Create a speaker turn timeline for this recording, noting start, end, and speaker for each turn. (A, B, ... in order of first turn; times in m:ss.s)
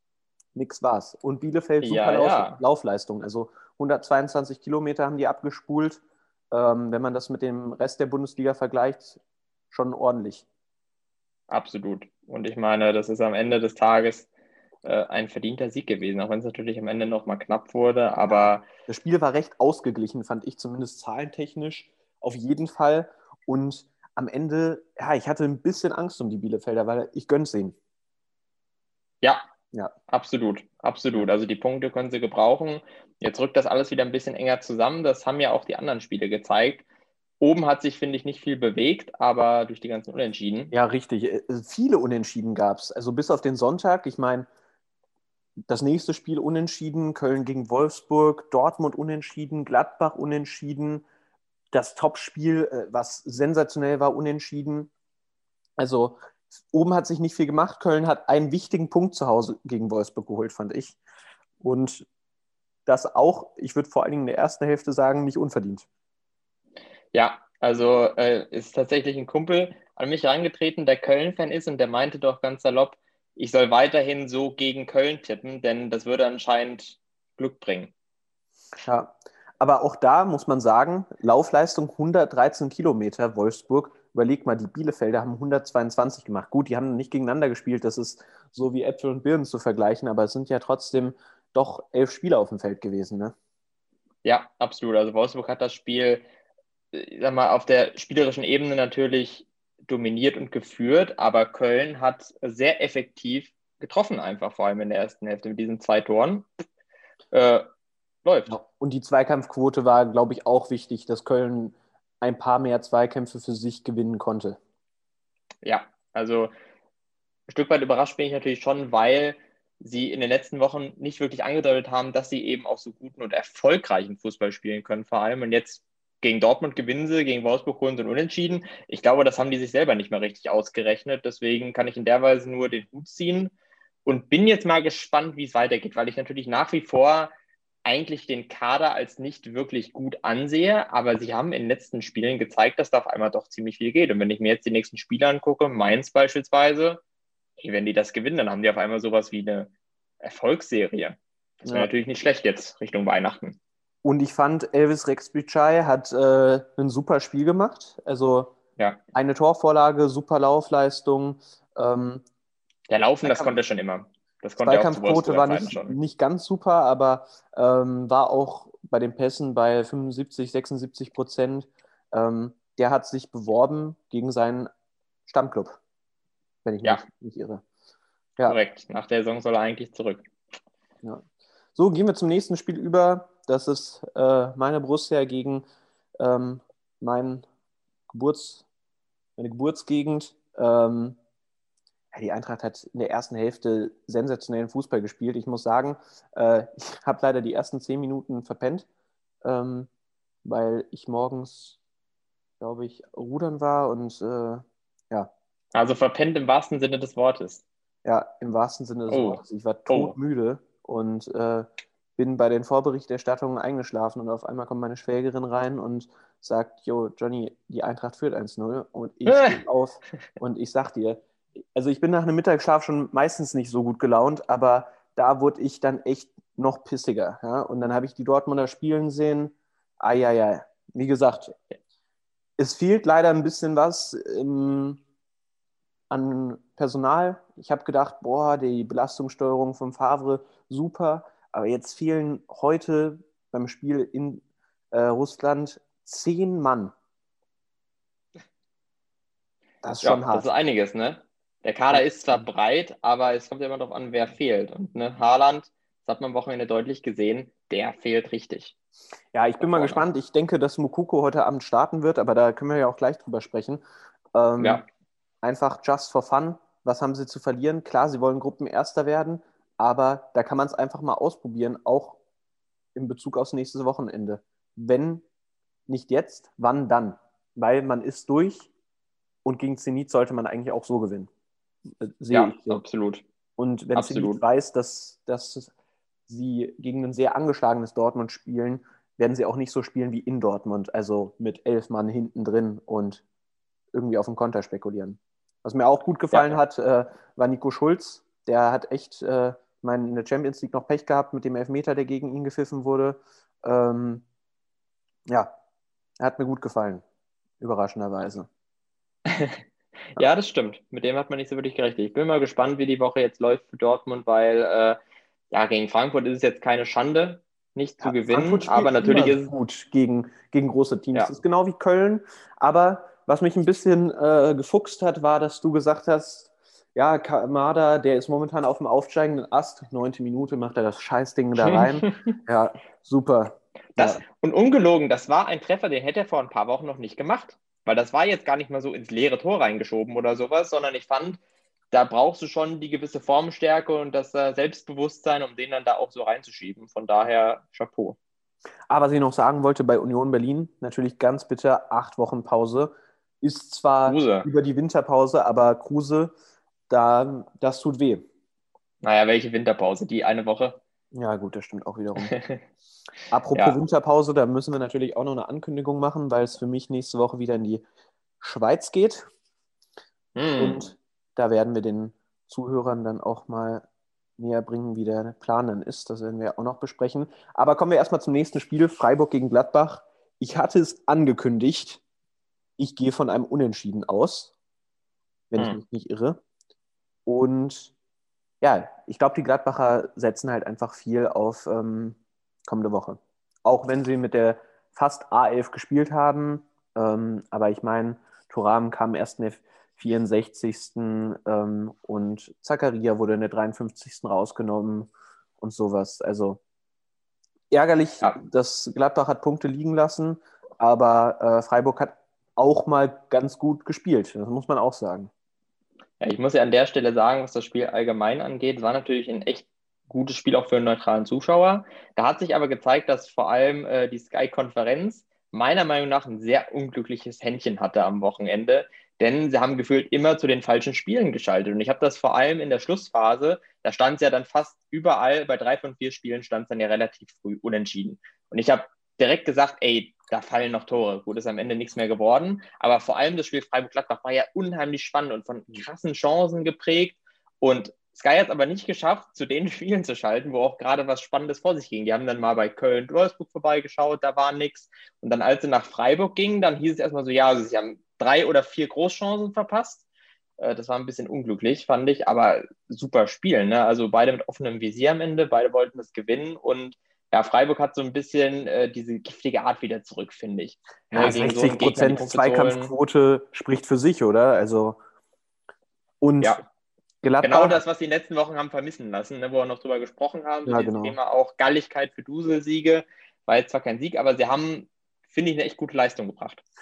0:00.6-0:10.5 A
0:01.8-0:02.6 B
0:11.5-0:14.3 B
0:14.8-0:18.6 B
0:18.3-0:27.8 A
0:30.1-0:36.8 B
0:37.4-0:40.7 B
0:40.7-0:44.5 A
0:45.7-0:51.0 A
0:51.7-0:54.9 A
0:55.8-0:56.2 A
0:56.7-1:01.0 A
1:01.6-1:02.1 A
1:02.9-1:05.9 A
1:07.1-1:17.9 B
1:18.8-1:33.4 A
1:34.2-1:36.2 B
1:36.9-1:46.5 B
1:47.3-1:47.7 B
1:48.2-1:48.6 B
1:48.5-1:54.6 A
1:55.6-1:56.5 B
1:57.5-2:13.5 B
2:14.0-2:17.3 B
2:17.8-2:27.0 B
2:27.6-2:33.6 B
2:31.6-2:31.9 A
2:34.0-2:38.6 A
2:39.1-2:42.2 A
2:42.9-2:46.0 B
2:43.2-2:43.6 A
2:44.6-2:54.7 A
2:55.3-2:55.8 A
2:56.6-2:57.6 A
2:58.5-3:00.2 B
3:01.8-3:05.6 A
3:06.2-3:07.5 A
3:08.1-3:08.6 A
3:09.4-3:11.2 A
3:12.1-3:18.9 A
3:19.4-3:19.9 A
3:20.4-3:21.8 A
3:22.6-3:25.3 A
3:25.7-3:27.6 B
3:28.0-3:41.2 A
3:29.1-3:30.2 B
3:39.3-3:39.6 B
3:41.7-3:51.6 A
3:52.6-3:55.0 A
3:56.1-4:06.9 A
4:09.8-4:10.5 A
4:10.0-4:18.7 B
4:11.9-4:12.5 A
4:19.3-4:23.8 A
4:19.6-4:20.0 B
4:24.3-4:24.8 A
4:24.6-4:24.8 B
4:25.4-4:32.2 A
4:33.0-4:35.2 A
4:35.9-4:38.7 A
4:39.4-4:41.3 A
4:42.0-4:42.8 A
4:42.3-4:43.2 B
4:43.6-4:45.7 A
4:44.0-4:44.4 B
4:46.3-4:53.2 A
4:53.9-5:04.2 A
4:56.3-4:56.6 B
5:06.2-5:07.0 A
5:07.6-5:08.5 A
5:09.3-5:09.6 B
5:10.2-5:15.0 B
5:15.5-5:19.5 B
5:18.0-5:34.2 A
5:31.7-5:32.3 B
5:34.0-5:41.4 B
5:41.9-5:48.2 B
5:48.9-5:56.3 A
5:54.1-5:54.5 B
5:56.9-5:58.2 A
5:59.0-6:00.8 B
6:01.1-6:02.3 A
6:02.2-6:02.6 B
6:03.3-6:07.8 A
6:08.4-6:09.3 A
6:10.4-6:10.9 B
6:10.6-6:13.9 A
6:14.4-6:22.0 A
6:22.8-6:24.5 A
6:25.5-6:26.4 A
6:27.3-6:27.9 A
6:28.6-6:46.6 A
6:47.7-6:55.3 A
6:56.2-7:40.0 B
7:40.6-7:52.9 B
7:51.1-7:55.0 A
7:56.2-7:56.6 A
7:57.2-7:57.8 A
7:57.4-8:06.6 B
8:00.7-8:01.2 A